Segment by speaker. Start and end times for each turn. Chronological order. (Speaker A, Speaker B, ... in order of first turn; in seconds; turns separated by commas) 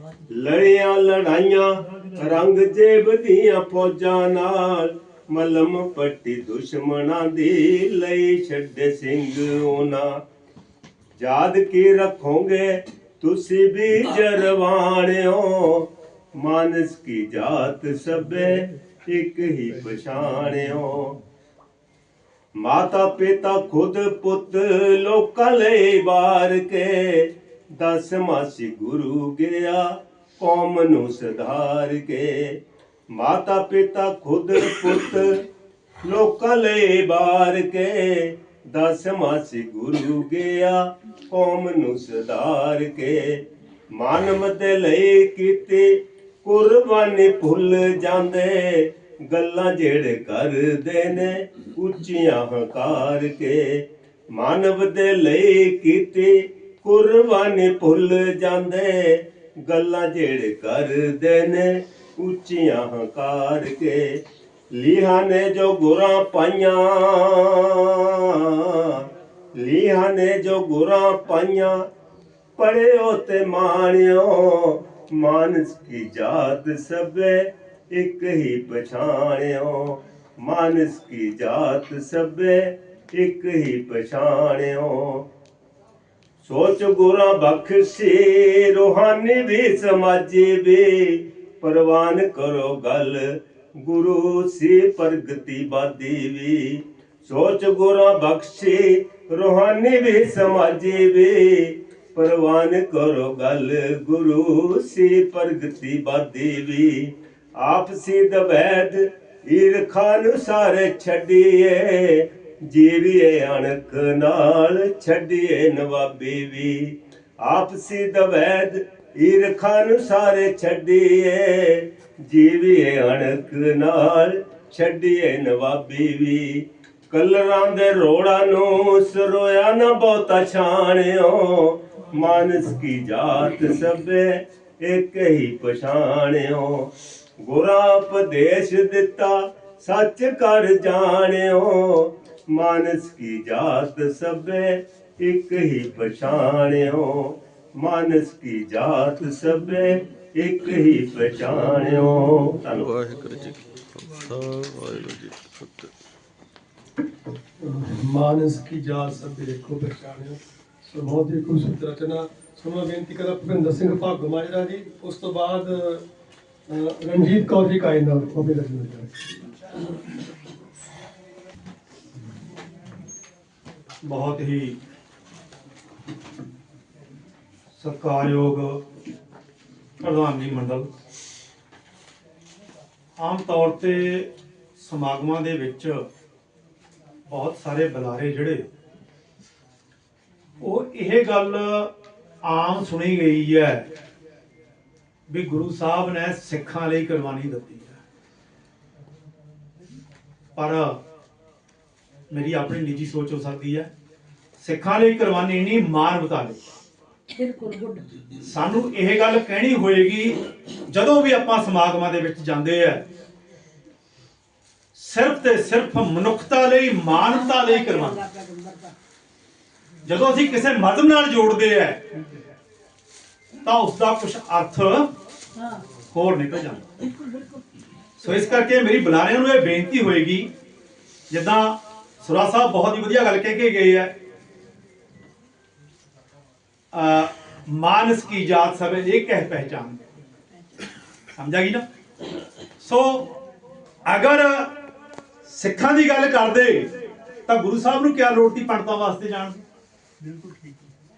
Speaker A: 0.3-10.2, Speaker A: 11.2-21.2, Speaker A: 22.6-32.6, Speaker A: 33.1-35.4, Speaker A: 36.0-43.4, Speaker A: 43.9-64.2, Speaker A: 64.7-71.9, Speaker A: 72.6-85.3, Speaker A: 86.4-152.9, Speaker B: 152.7-155.9, Speaker C: 157.6-166.0, Speaker C: 166.7-169.3, Speaker D: 174.0-174.8, Speaker D: 177.8-178.8, Speaker D: 180.0-180.9, Speaker D: 183.2-186.1, Speaker D: 187.3-188.7, Speaker D: 190.6-191.9, Speaker D: 192.4-193.9, Speaker D: 195.3-198.0, Speaker D: 200.6-201.0, Speaker D: 202.3-203.9, Speaker D: 204.6-206.6, Speaker E: 207.3-208.1, Speaker D: 208.4-213.1, Speaker D: 214.9-218.2, Speaker E: 217.4-218.9, Speaker D: 220.1-222.1, Speaker D: 223.6-225.1, Speaker E: 225.6-225.8, Speaker D: 226.1-227.0, Speaker D: 228.2-230.5, Speaker D: 231.3-234.1, Speaker D: 236.9-240.0, Speaker D: 241.3-241.8, Speaker D: 242.8-243.3, Speaker D: 244.1-244.7, Speaker D: 245.4-246.9, Speaker D: 247.5-249.6